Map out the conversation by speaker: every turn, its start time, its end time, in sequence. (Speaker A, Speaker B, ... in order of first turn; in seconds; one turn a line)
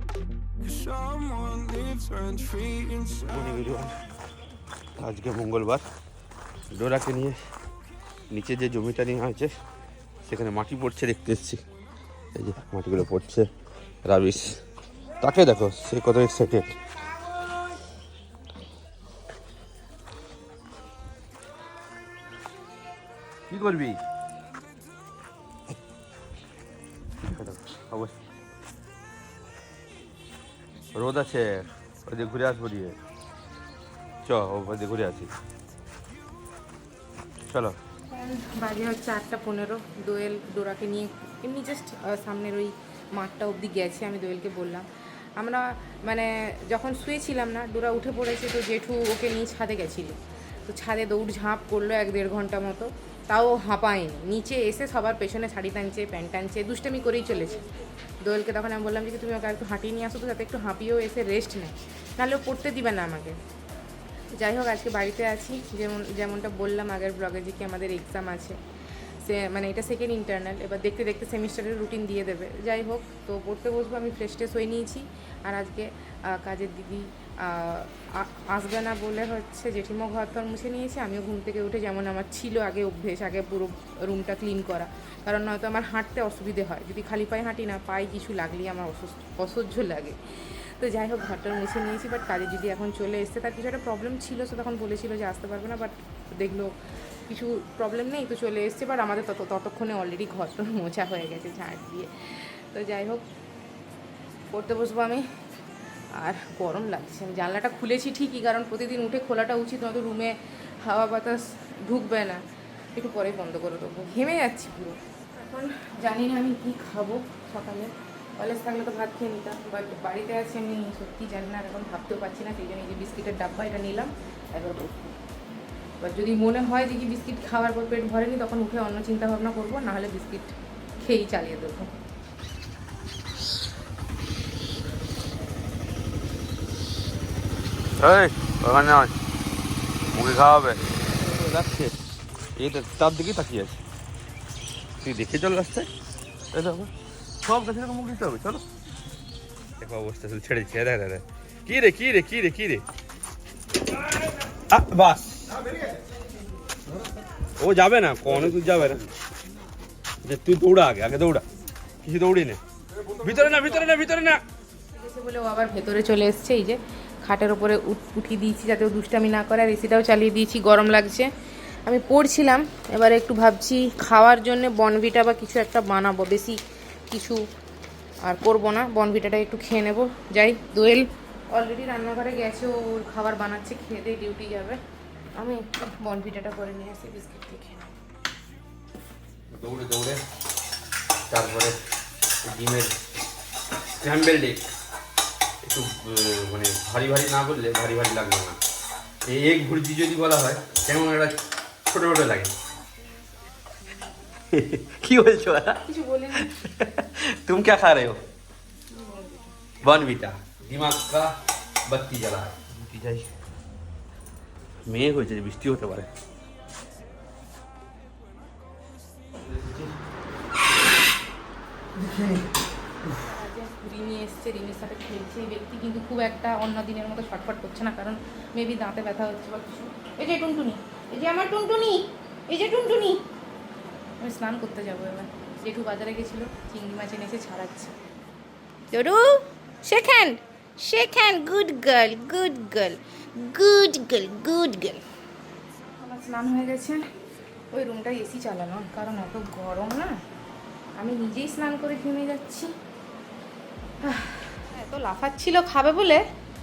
Speaker A: 0.6-3.6
Speaker B: 3.2-4.0
Speaker B: 5.0-5.8
Speaker B: 6.7-7.4
Speaker B: 8.3-9.5
Speaker B: 10.2-11.6
Speaker B: 12.3-13.5
Speaker B: 14.0-14.6
Speaker B: 15.2-16.7
Speaker B: 23.5-24.0
Speaker B: 27.2-28.1
Speaker B: 30.9-33.0
Speaker B: 34.2-35.3
Speaker B: 37.5-37.8
Speaker C: 38.1-44.9
Speaker C: 45.4-57.6
Speaker C: 58.2-63.4
Speaker C: 64.3-68.5
Speaker C: 69.2-96.8
Speaker C: 97.3-103.2
Speaker C: 104.5-105.2
Speaker C: 106.1-112.4
Speaker C: 112.9-124.9
Speaker C: 126.0-131.9
Speaker B: 138.0-139.1
Speaker B: 140.1-141.9
Speaker B: 142.6-143.8
Speaker B: 145.0-145.9
Speaker B: 146.5-146.9
Speaker B: 147.4-148.6
Speaker B: 149.8-152.8
Speaker B: 154.7-155.5
Speaker B: 157.6-159.1
Speaker B: 160.2-161.4
Speaker B: 162.0-162.6
Speaker B: 163.2-164.4
Speaker C: 164.9-171.3
Speaker C: 171.8-176.6
Speaker C: 177.1-177.4
Speaker C: 178.2-184.8
Speaker C: 185.3-187.9
Speaker B: 189.5-190.2
Speaker B: 191.3-191.8
Speaker B: 192.4-192.9
Speaker B: 193.9-194.7
Speaker B: 195.6-198.6
Speaker B: 199.2-202.5
Speaker B: 204.5-205.8
Speaker C: 205.8-206.5
Speaker B: 206.3-208.2
Speaker C: 208.9-209.5
Speaker B: 209.8-211.3
Speaker B: 211.9-213.3
Speaker B: 214.8-216.1
Speaker B: 219.4-219.9
Speaker B: 222.0-222.4
Speaker C: 223.2-233.2
Speaker C: 234.2-237.9
Speaker C: 238.9-245.0
Speaker C: 246.0-247.0
Speaker C: 247.7-250.2
Speaker C: 251.0-252.7
Speaker C: 254.0-256.2